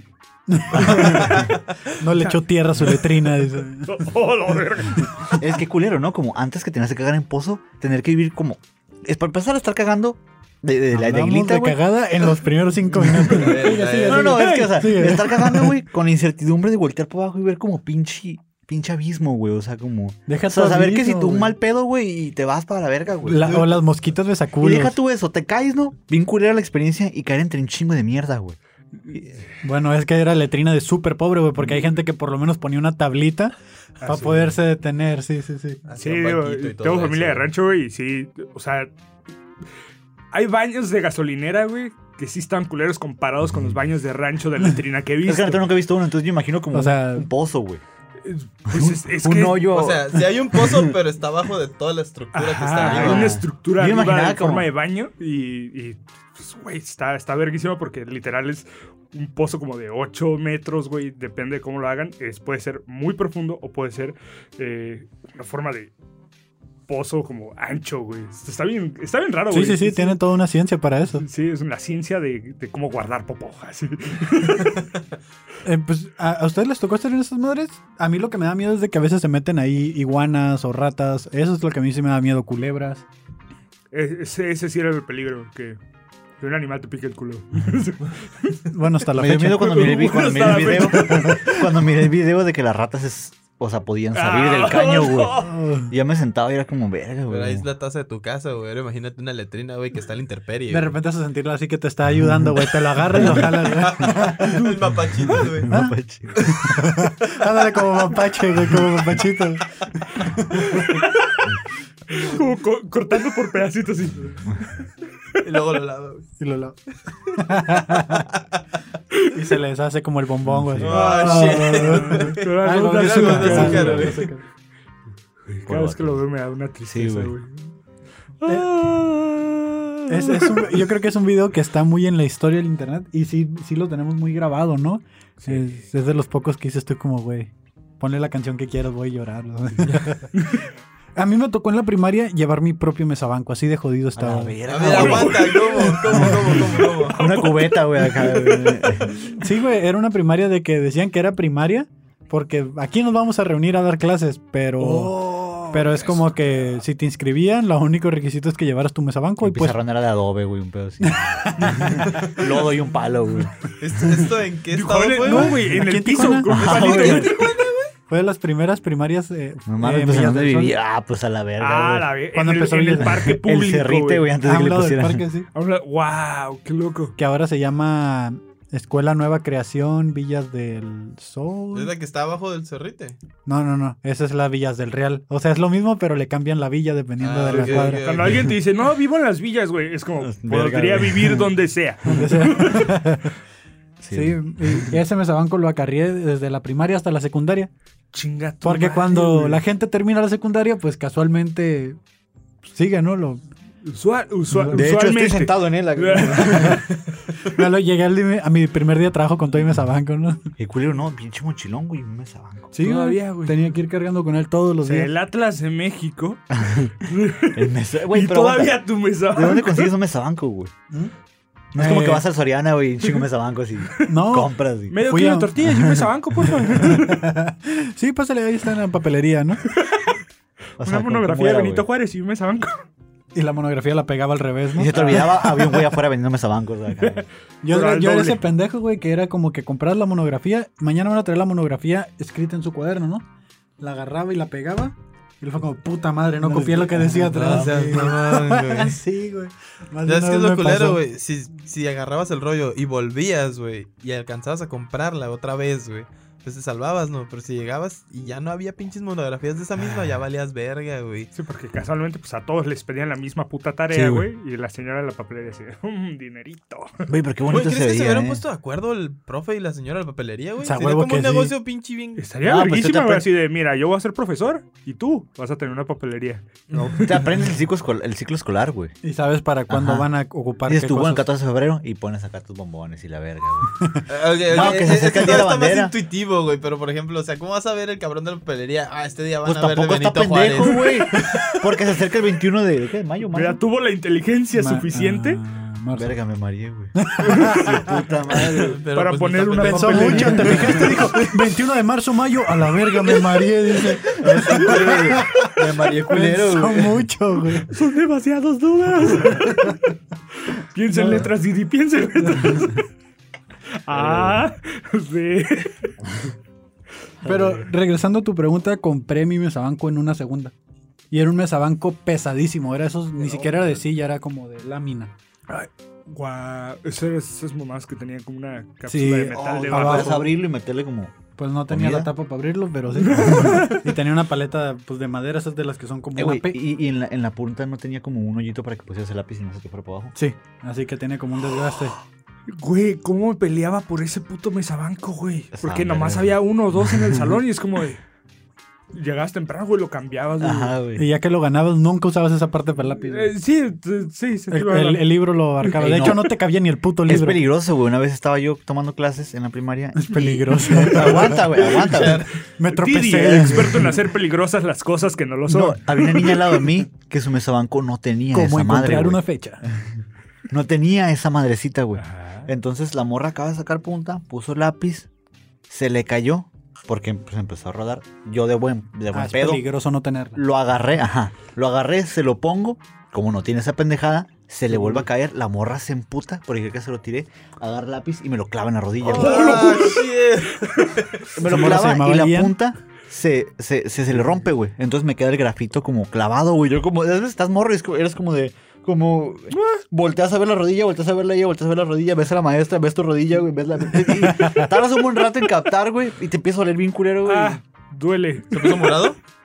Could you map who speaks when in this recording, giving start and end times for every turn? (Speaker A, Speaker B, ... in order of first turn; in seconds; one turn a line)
Speaker A: 0.5-3.9
Speaker B: 0.7-1.5
Speaker C: 1.0-1.6
Speaker D: 2.1-5.3
Speaker B: 5.3-11.8
Speaker A: 10.9-15.8
Speaker B: 13.1-23.7
Speaker C: 13.1-14.4
Speaker D: 14.1-14.7
Speaker A: 20.3-21.5
Speaker A: 23.2-24.9
Speaker C: 23.4-23.7
Speaker B: 24.6-28.6
Speaker A: 29.6-35.8
Speaker D: 34.0-34.5
Speaker C: 35.9-37.5
Speaker D: 36.0-38.9
Speaker D: 40.3-45.7
Speaker B: 45.2-47.8
Speaker A: 46.7-47.3
Speaker D: 48.2-49.7
Speaker B: 48.7-50.9
Speaker C: 49.7-53.4
Speaker D: 52.3-65.9
Speaker B: 52.8-54.7
Speaker D: 66.9-70.2
Speaker A: 69.5-71.2
Speaker D: 71.2-74.8
Speaker A: 75.6-83.0
Speaker D: 83.9-85.8
Speaker D: 86.4-88.6
Speaker A: 88.7-89.9
Speaker B: 89.1-97.6
Speaker D: 89.4-91.5
Speaker A: 91.0-91.6
Speaker D: 94.1-95.6
Speaker A: 95.4-95.9
Speaker C: 97.3-100.9
Speaker A: 100.7-104.7
Speaker B: 102.1-103.5
Speaker C: 103.3-105.7
Speaker B: 105.6-106.5
Speaker A: 105.7-110.8
Speaker B: 108.7-109.0
Speaker D: 110.5-111.5
Speaker D: 112.1-114.8
Speaker C: 115.4-116.3
Speaker A: 116.4-116.8
Speaker A: 117.3-118.3
Speaker A: 119.3-124.4
Speaker B: 120.4-121.3
Speaker C: 120.8-124.3
Speaker D: 121.1-124.2
Speaker D: 125.5-127.7
Speaker B: 125.7-126.2
Speaker B: 126.9-127.3
Speaker D: 128.4-130.8
Speaker A: 128.4-128.8
Speaker A: 130.1-140.6
Speaker D: 135.4-135.7
Speaker A: 141.2-145.5
Speaker B: 144.2-145.4
Speaker C: 144.7-147.2
Speaker D: 144.8-146.3
Speaker A: 146.1-146.4
Speaker B: 146.2-146.5
Speaker D: 147.0-149.4
Speaker B: 147.1-149.1
Speaker A: 149.2-159.8
Speaker B: 154.8-155.1
Speaker B: 159.4-163.5
Speaker A: 161.0-162.3
Speaker C: 163.8-165.6
Speaker D: 164.7-167.7
Speaker A: 165.2-166.9
Speaker B: 166.5-167.4
Speaker A: 168.1-170.7
Speaker B: 169.7-172.1
Speaker D: 171.6-174.3
Speaker A: 172.3-173.3
Speaker B: 173.2-175.2
Speaker A: 174.4-175.5
Speaker D: 175.5-177.1
Speaker A: 177.2-181.9
Speaker C: 181.7-183.2
Speaker A: 183.4-188.4
Speaker C: 187.2-188.5
Speaker D: 187.5-192.9
Speaker B: 190.2-191.5
Speaker A: 192.0-193.3
Speaker B: 194.0-194.9
Speaker A: 194.1-197.7
Speaker D: 198.1-199.6
Speaker A: 198.6-202.0
Speaker A: 202.7-203.4
Speaker D: 203.8-206.8
Speaker A: 204.5-204.8
Speaker B: 204.7-206.8
Speaker A: 206.4-206.8
Speaker A: 207.4-210.4
Speaker B: 210.6-212.7
Speaker A: 212.7-215.1
Speaker D: 212.8-213.6
Speaker D: 214.8-219.9
Speaker B: 216.5-216.9
Speaker B: 217.5-220.7
Speaker B: 221.7-225.0
Speaker A: 221.8-222.2
Speaker A: 224.0-225.6
Speaker D: 224.9-227.3
Speaker B: 225.6-226.1
Speaker A: 226.6-229.6
Speaker D: 229.8-230.1
Speaker B: 230.8-231.8
Speaker D: 230.8-232.8
Speaker A: 233.3-235.9
Speaker B: 234.7-237.2
Speaker D: 237.0-238.4
Speaker A: 237.6-243.2
Speaker A: 243.8-251.0
Speaker C: 246.7-249.0
Speaker C: 250.0-261.3
Speaker D: 261.3-267.1
Speaker B: 263.9-264.3
Speaker B: 267.1-268.4
Speaker C: 267.5-272.2
Speaker A: 270.6-271.5
Speaker D: 272.2-277.3
Speaker B: 272.4-273.3
Speaker B: 277.0-278.9
Speaker A: 279.0-281.3
Speaker B: 279.7-280.1
Speaker B: 280.7-283.8
Speaker C: 284.1-291.0
Speaker B: 284.5-285.9
Speaker B: 289.4-293.6
Speaker D: 293.3-295.4
Speaker A: 294.5-296.1
Speaker B: 295.9-298.7
Speaker A: 296.9-298.0
Speaker C: 298.5-301.3
Speaker D: 298.9-300.8
Speaker A: 299.6-307.7
Speaker B: 300.0-301.2
Speaker B: 304.1-307.0
Speaker C: 304.5-305.2
Speaker C: 305.7-306.8
Speaker D: 307.7-309.8
Speaker D: 310.4-312.8
Speaker A: 310.9-311.3
Speaker D: 313.8-315.9
Speaker B: 313.9-314.4
Speaker B: 317.2-317.6
Speaker A: 317.2-320.5
Speaker A: 321.1-325.1
Speaker B: 323.2-323.7
Speaker D: 325.5-330.2
Speaker A: 328.9-330.3
Speaker B: 329.4-332.1
Speaker A: 331.4-336.6
Speaker D: 332.9-333.9
Speaker B: 336.1-340.1
Speaker A: 340.1-341.9
Speaker D: 342.5-348.0
Speaker B: 345.5-347.4
Speaker D: 348.9-350.8
Speaker B: 350.4-351.0
Speaker A: 350.9-353.3
Speaker D: 353.1-356.2
Speaker A: 354.5-357.4
Speaker B: 355.8-356.2
Speaker B: 357.0-362.3
Speaker A: 359.9-361.8
Speaker C: 361.5-362.3
Speaker A: 362.6-364.0
Speaker D: 362.7-366.5
Speaker B: 363.2-363.5
Speaker B: 365.5-369.2
Speaker A: 368.3-369.6
Speaker B: 370.5-375.1
Speaker D: 371.9-372.5
Speaker B: 375.7-379.6
Speaker A: 379.1-380.4
Speaker B: 380.4-389.7
Speaker A: 384.7-385.0
Speaker C: 389.0-391.3
Speaker D: 389.1-391.0
Speaker B: 391.4-407.6
Speaker A: 391.4-392.6
Speaker D: 399.5-399.8
Speaker A: 404.1-404.7
Speaker D: 407.2-408.9
Speaker C: 408.5-409.2